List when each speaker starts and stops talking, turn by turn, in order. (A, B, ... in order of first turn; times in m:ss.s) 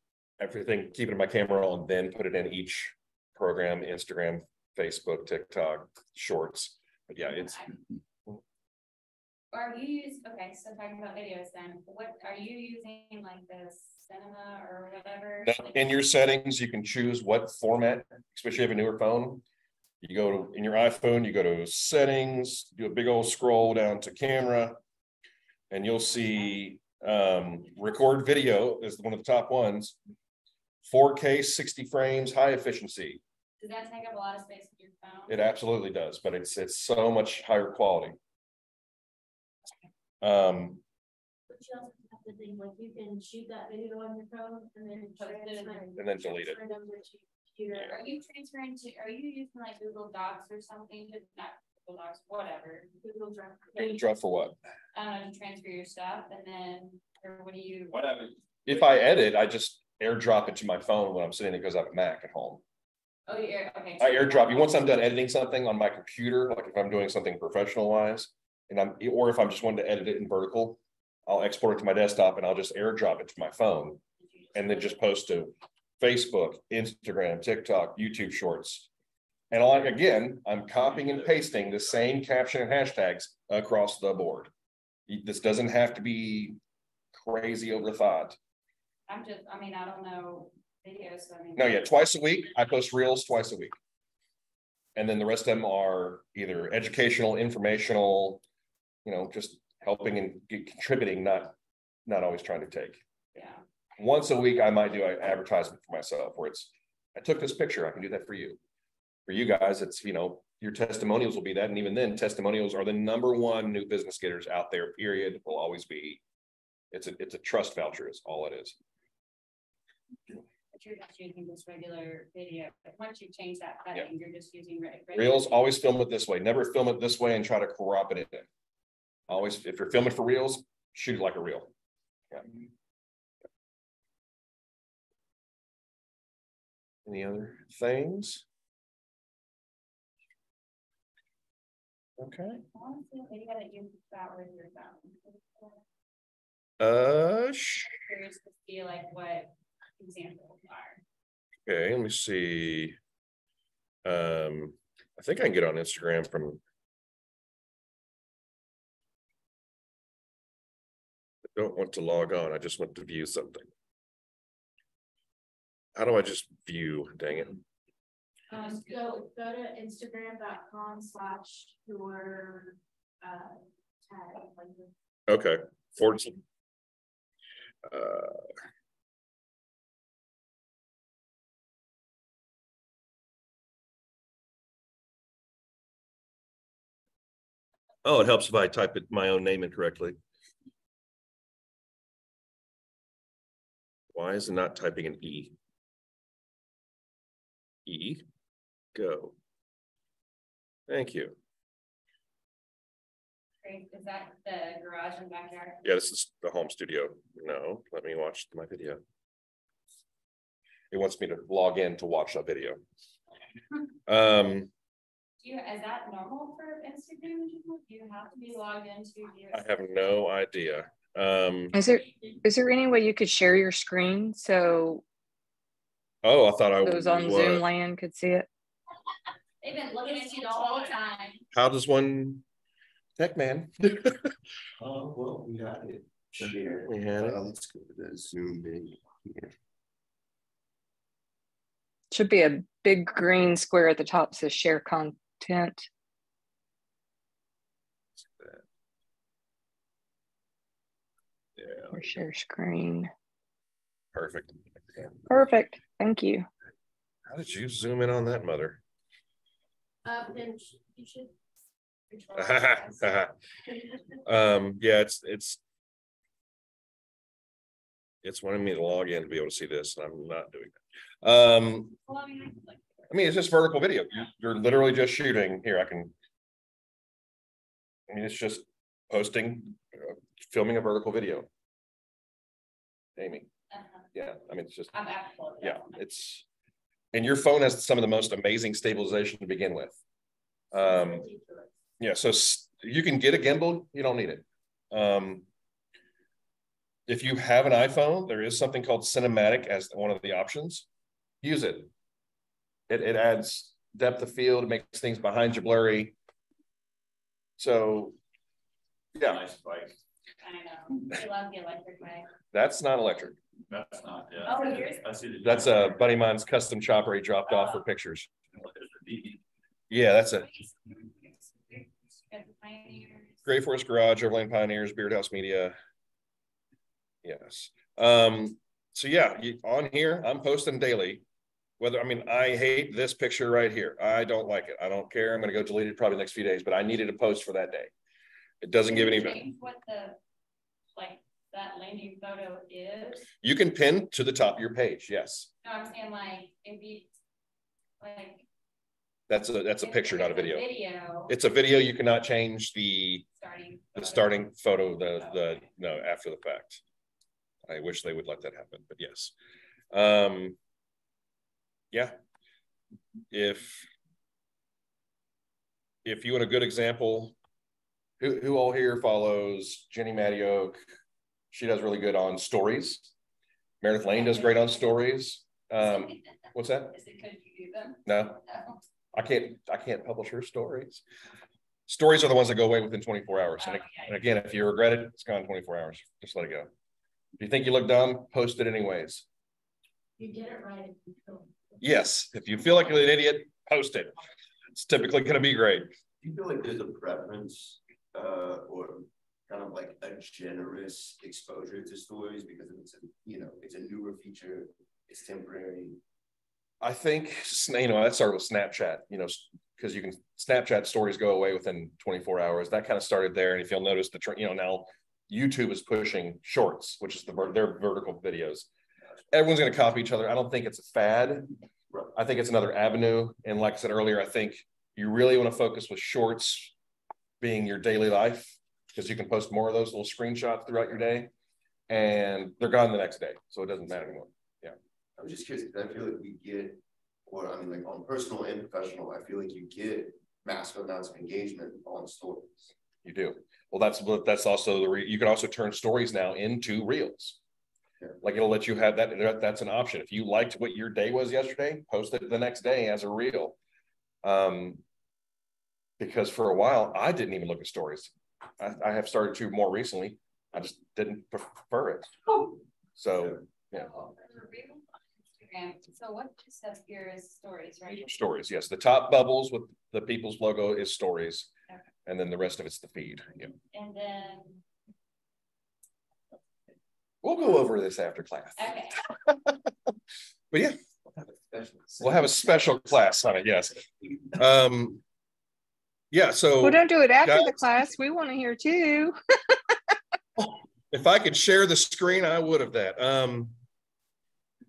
0:00.4-0:07.6 A
0:07.3-0:07.7 B
0:09.5-0:16.0 B
0:15.4-0:19.4 A
0:20.0-0:24.8 A
0:25.7-0:30.0 A
0:30.8-0:33.2 A
0:33.6-0:35.5 B
0:35.3-0:38.2 A
0:40.2-0:40.8 A
0:41.5-0:48.0 C
0:45.2-0:46.0 B
0:46.0-0:46.6 A
0:47.8-0:52.9 B
0:53.0-0:54.0 C
0:53.8-0:54.6 A
0:54.9-0:58.0 B
0:57.9-0:58.3 D
0:58.6-1:02.6 A
1:03.3-1:05.0 B
1:04.0-1:14.0 A
1:14.2-1:15.0 B
1:14.6-1:18.9 A
1:19.5-1:24.5 A
1:25.1-1:26.6 A
1:27.1-1:28.4 A
1:29.1-1:32.1 B
1:31.6-1:33.8 A
1:35.0-1:38.4 A
1:39.0-1:41.5 A
1:42.1-1:43.0 A
1:44.0-1:48.6 A
1:49.3-1:56.2 A
1:56.9-1:58.8 A
2:00.7-2:05.6 B
2:05.1-2:08.5 A
2:09.3-2:11.7 A
2:17.1-2:18.4 A
2:22.2-2:22.6 A
2:22.7-2:25.8 B
2:26.8-2:27.9 A
2:27.8-2:31.0 B
2:31.6-2:33.0 A
2:34.0-2:36.6 A
2:41.6-2:43.7 A
2:46.0-2:47.6 A
2:48.5-2:54.9 C
2:48.5-2:49.3 B
2:55.3-2:56.4 A
2:57.8-2:58.5 A
3:08.0-3:10.2 A
3:14.1-3:15.5 A
3:17.9-3:18.2 A
3:18.9-3:19.4 A
3:20.9-3:21.4 A
3:23.6-3:25.8 B
3:25.8-3:29.0 A
3:30.9-3:32.8 A
3:34.1-3:34.7 A
3:35.4-3:39.7 B
3:39.5-3:41.8 A
3:41.7-3:45.0 E
3:46.2-3:47.7 A
3:46.8-3:48.5 E
3:49.6-3:51.4 B
3:51.5-3:52.4 A
3:53.2-3:54.3 A
3:54.8-3:59.5 F
3:56.5-3:57.4 A
4:02.1-4:05.9 E
4:08.2-4:08.6 A
4:11.6-4:12.0 A
4:11.9-4:13.1 E
4:14.1-4:15.1 A
4:15.3-4:16.5 E
4:17.3-4:18.8 A
4:20.0-4:21.4 C
4:22.1-4:23.0 C
4:22.3-4:23.3 A
4:24.2-4:25.6 A
4:28.2-4:32.0 A
4:32.1-4:33.1 B
4:33.1-4:36.1 A
4:38.1-4:41.5 A
4:43.2-4:43.5 A
4:43.7-4:44.0 B
4:44.1-4:44.9 A
4:44.9-4:46.0 B
4:45.6-4:46.4 A
4:47.1-4:50.0 A
4:50.7-4:51.3 A
4:50.7-4:51.7 C
4:52.0-4:55.4 A
4:57.1-5:00.9 A
5:01.4-5:01.9 A
5:02.9-5:06.2 A
5:07.6-5:08.1 A
5:09.1-5:09.4 A
5:09.2-5:10.0 D
5:10.4-5:12.3 B
5:12.5-5:13.4 A
5:13.7-5:16.0 D
5:14.4-5:15.0 B
5:15.4-5:18.3 A
5:17.5-5:17.8 B
5:18.5-5:19.4 D
5:19.9-5:20.5 A
5:20.4-5:23.4 B
5:23.4-5:25.8 A
5:27.2-5:31.2 A
5:31.8-5:37.9 A
5:38.6-5:39.4 A
5:38.9-5:40.2 B
5:40.9-5:43.3 B
5:43.4-5:45.5 A
5:45.6-5:47.1 B
5:48.0-5:48.4 B
5:49.3-5:50.6 A
5:49.8-5:51.3 B
5:51.3-5:53.2 A
5:53.4-5:54.4 B
5:53.9-5:56.8 A
5:57.7-5:59.3 A
5:59.9-6:00.6 A
6:03.3-6:03.9 A
6:06.0-6:07.4 A
6:08.2-6:10.8 A
6:11.5-6:13.1 A
6:13.8-6:17.0 A
6:14.1-6:14.9 B
6:15.8-6:16.3 B
6:16.9-6:18.8 B
6:18.1-6:18.4 A
6:19.1-6:21.0 A
6:21.9-6:26.7 A
6:23.6-6:24.1 B
6:27.4-6:29.2 A
6:30.2-6:31.5 C
6:31.8-6:34.2 A
6:34.8-6:35.9 A
6:36.2-6:46.0 F
6:46.8-6:58.7 A
6:59.3-7:01.5 A
7:02.2-7:06.7 A
7:07.4-7:11.3 A
7:11.9-7:14.8 A
7:15.2-7:22.7 F
7:23.0-7:27.4 A
7:28.2-7:33.6 A
7:34.2-7:34.8 A
7:36.0-7:42.1 A
7:43.0-7:43.9 A
7:43.7-7:48.2 B
7:47.9-7:51.5 A
7:52.1-7:53.5 A
7:53.7-7:54.6 B
7:57.2-7:58.7 A
7:58.6-7:59.0 B
7:59.2-7:59.6 A
8:00.5-8:00.8 A
8:01.5-8:02.0 F
8:02.0-8:05.0 A
8:06.1-8:07.6 A
8:06.6-8:09.6 E
8:10.4-8:13.6 A